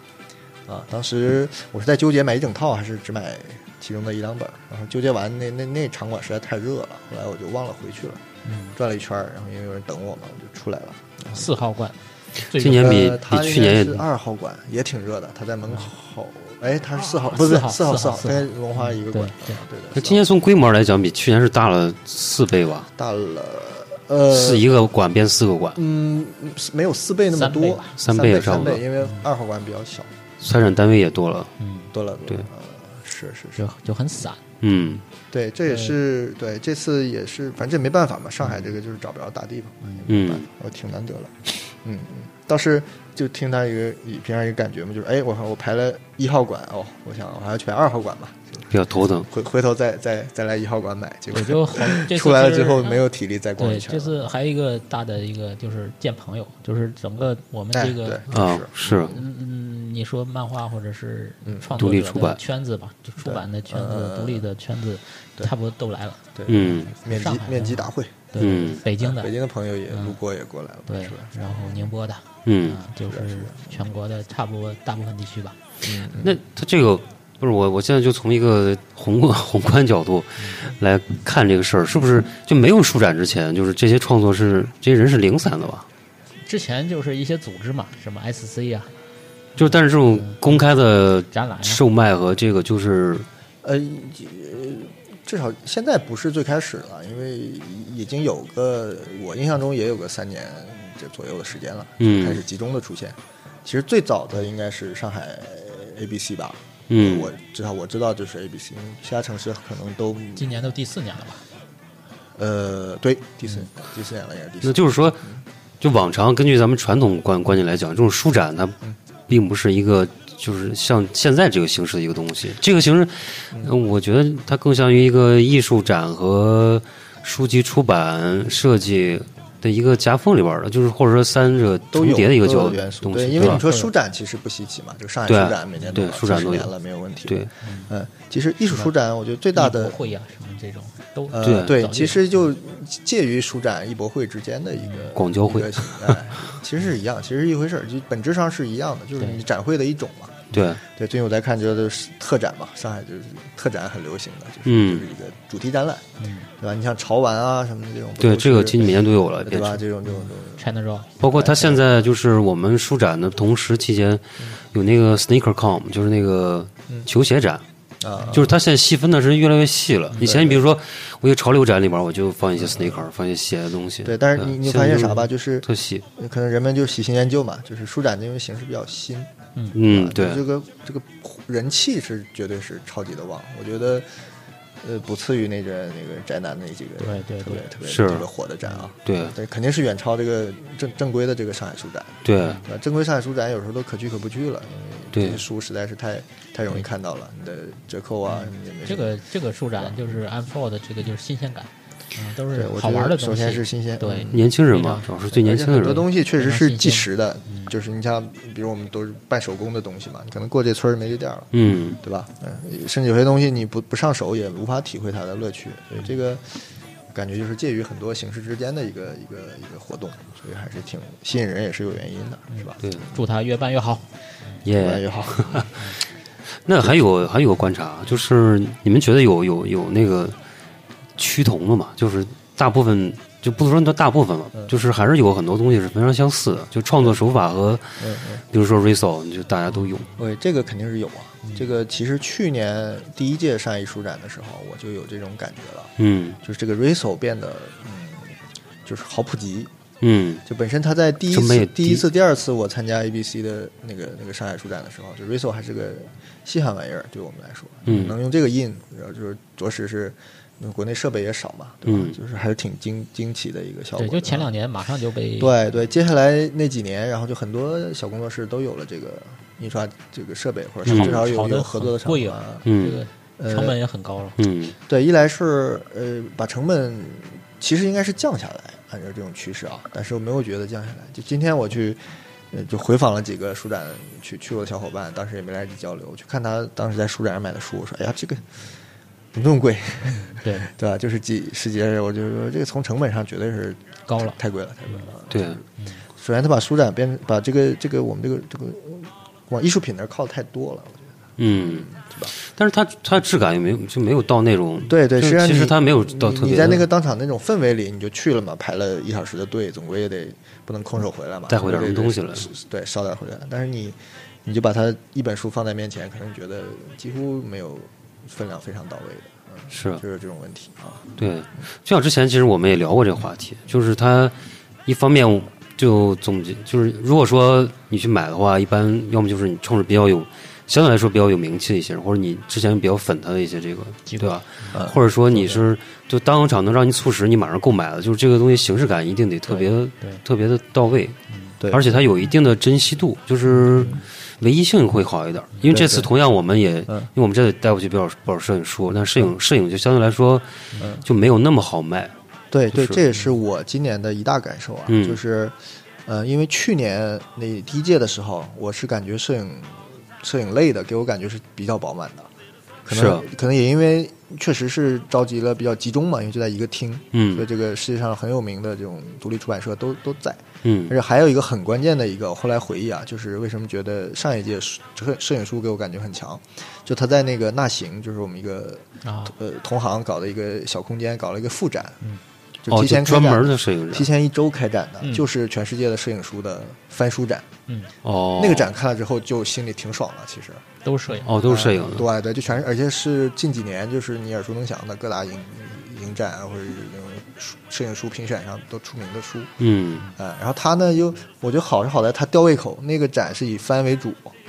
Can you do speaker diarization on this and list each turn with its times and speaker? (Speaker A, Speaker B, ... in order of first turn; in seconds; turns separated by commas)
Speaker A: 0.7-8.2, Speaker B: 8.4-8.8, Speaker A: 8.8-11.5, Speaker B: 11.3-13.0, Speaker C: 12.6-14.1, Speaker A: 12.7-20.2, Speaker B: 17.0-19.6, Speaker C: 19.9-22.9, Speaker A: 23.0-24.7, Speaker C: 24.3-25.8, Speaker A: 25.8-30.1, Speaker B: 27.3-27.9, Speaker C: 28.0-28.9, Speaker C: 30.4-31.5, Speaker B: 31.6-31.9, Speaker A: 31.9-33.6, Speaker B: 33.6-34.4, Speaker C: 34.6-35.0, Speaker A: 35.3-48.7, Speaker B: 35.7-35.9, Speaker C: 40.1-40.5, Speaker C: 48.7-49.3, Speaker A: 49.2-54.3, Speaker B: 51.3-53.0, Speaker B: 53.6-58.2, Speaker A: 57.7-59.2, Speaker C: 58.3-59.2, Speaker B: 59.0-69.3, Speaker A: 61.5-61.7, Speaker C: 61.8-62.4, Speaker A: 63.2-64.5, Speaker A: 66.3-71.9, Speaker C: 66.5-66.9, Speaker C: 68.4-68.8, Speaker B: 69.9-70.2, Speaker B: 70.9-75.6, Speaker C: 72.5-72.8, Speaker A: 73.1-73.8, Speaker A: 75.8-76.4, Speaker C: 76.2-85.9, Speaker B: 86.5-88.9, Speaker C: 89.6-93.3, Speaker B: 89.6-90.6, Speaker B: 91.3-91.8, Speaker A: 93.6-110.7, Speaker C: 102.0-102.4, Speaker C: 106.9-107.3, Speaker B: 110.4-111.4, Speaker A: 112.4-115.4, Speaker C: 114.6-115.3, Speaker C: 115.8-118.8, Speaker C: 119.3-133.6, Speaker A: 131.9-140.0, Speaker B: 133.4-133.9, Speaker C: 135.3-136.7, Speaker B: 137.6-137.9, Speaker B: 139.5-142.5, Speaker A: 141.3-156.1, Speaker C: 141.4-141.8, Speaker C: 145.2-146.2, Speaker B: 149.2-149.4, Speaker C: 150.5-150.8, Speaker C: 154.7-155.1, Speaker B: 156.2-156.5, Speaker A: 156.6-160.7, Speaker C: 158.2-159.8, Speaker B: 160.1-161.1, Speaker C: 161.2-167.6, Speaker A: 161.3-161.8, Speaker A: 168.0-168.5, Speaker C: 168.3-176.1, Speaker A: 170.2-170.7, Speaker A: 172.6-173.0, Speaker A: 174.1-184.1, Speaker C: 179.7-180.4, Speaker A: 184.8-199.2, Speaker B: 187.0-187.7, Speaker C: 187.9-188.3, Speaker C: 189.1-189.3, Speaker C: 192.2-192.6, Speaker C: 195.1-195.4, Speaker B: 198.3-205.1, Speaker A: 199.8-200.2, Speaker A: 202.5-204.6, Speaker C: 204.3-206.1, Speaker A: 205.3-216.6, Speaker B: 206.3-207.7, Speaker C: 211.5-212.0, Speaker A: 217.1-223.0, Speaker B: 222.5-224.1, Speaker C: 224.6-225.9, Speaker A: 224.7-225.7, Speaker C: 226.7-230.3, Speaker C: 231.2-238.0, Speaker A: 238.0-238.4, Speaker C: 238.5-240.1, Speaker A: 240.2-249.7, Speaker C: 246.0-246.4, Speaker C: 250.0-250.4, Speaker A: 250.4-264.5, Speaker C: 251.3-252.1, Speaker C: 257.9-258.2, Speaker C: 261.9-262.2, Speaker B: 264.0-265.5, Speaker A: 265.4-272.7, Speaker C: 270.9-271.2, Speaker B: 270.9-274.4, Speaker C: 272.6-273.0, Speaker A: 273.4-273.8, Speaker C: 274.4-274.8, Speaker A: 274.9-288.6, Speaker A: 289.3-295.6, Speaker B: 290.3-290.7, Speaker B: 294.1-294.4, Speaker C: 295.3-295.6, Speaker A: 296.2-302.3, Speaker C: 301.4-306.9, Speaker A: 304.9-321.1, Speaker C: 311.5-312.5, Speaker C: 319.7-320.0, Speaker C: 321.2-324.3, Speaker C: 324.9-350.5, Speaker B: 334.1-334.7, Speaker A: 334.7-335.6, Speaker B: 339.5-340.2, Speaker A: 341.6-341.9, Speaker B: 343.6-344.0, Speaker A: 345.7-346.1, Speaker A: 350.8-351.0, Speaker C: 351.0-352.1, Speaker A: 352.5-362.3, Speaker C: 352.7-353.0, Speaker C: 354.9-355.2, Speaker A: 362.9-382.0, Speaker C: 362.9-363.2, Speaker C: 367.1-367.5, Speaker C: 370.6-370.9, Speaker B: 379.0-379.3, Speaker A: 382.6-387.5, Speaker C: 382.7-384.1, Speaker C: 388.0-388.7, Speaker A: 388.4-390.6, Speaker B: 390.9-391.3, Speaker C: 391.2-392.1, Speaker A: 391.3-399.5, Speaker C: 399.6-400.0, Speaker A: 400.2-404.4